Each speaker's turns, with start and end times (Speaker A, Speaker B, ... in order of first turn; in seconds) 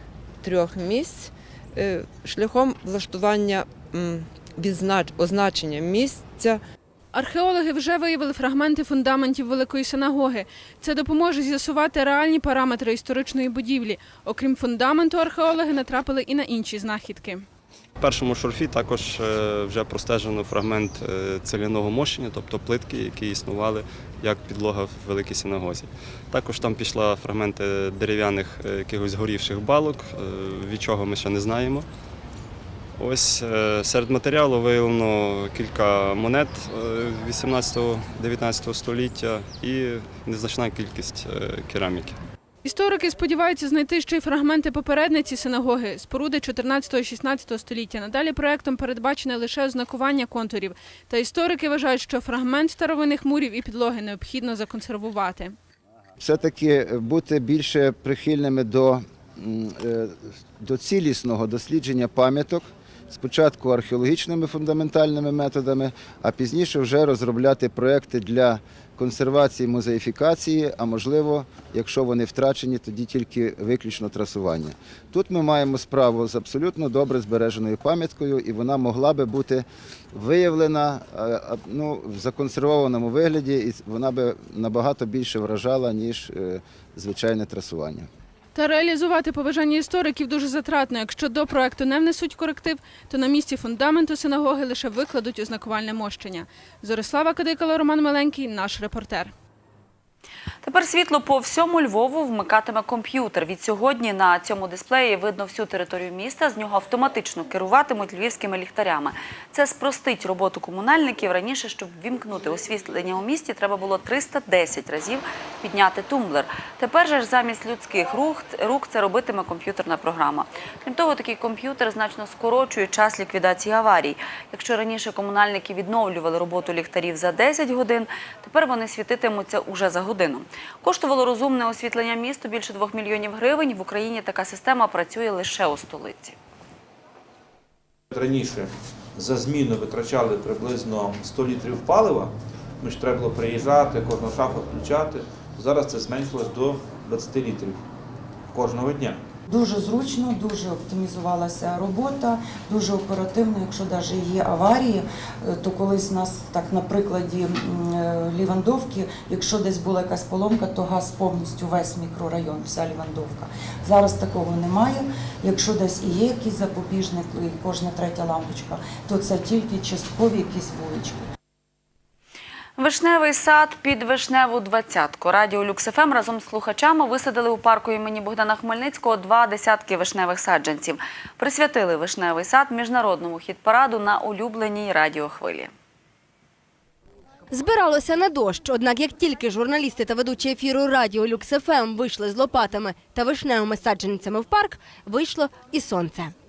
Speaker A: 0.4-6.6
Speaker B: 7.1-17.4, 42.6-55.5, 88.5-99.3
Speaker C: 18.0-31.9, 33.0-42.2
Speaker D: 56.2-88.1
Speaker E: 100.6-136.4, 172.8-185.7
Speaker F: 143.2-145.1, 145.6-146.9, 148.5-149.1
Speaker G: 149.5-171.3
Speaker H: 187.5-196.3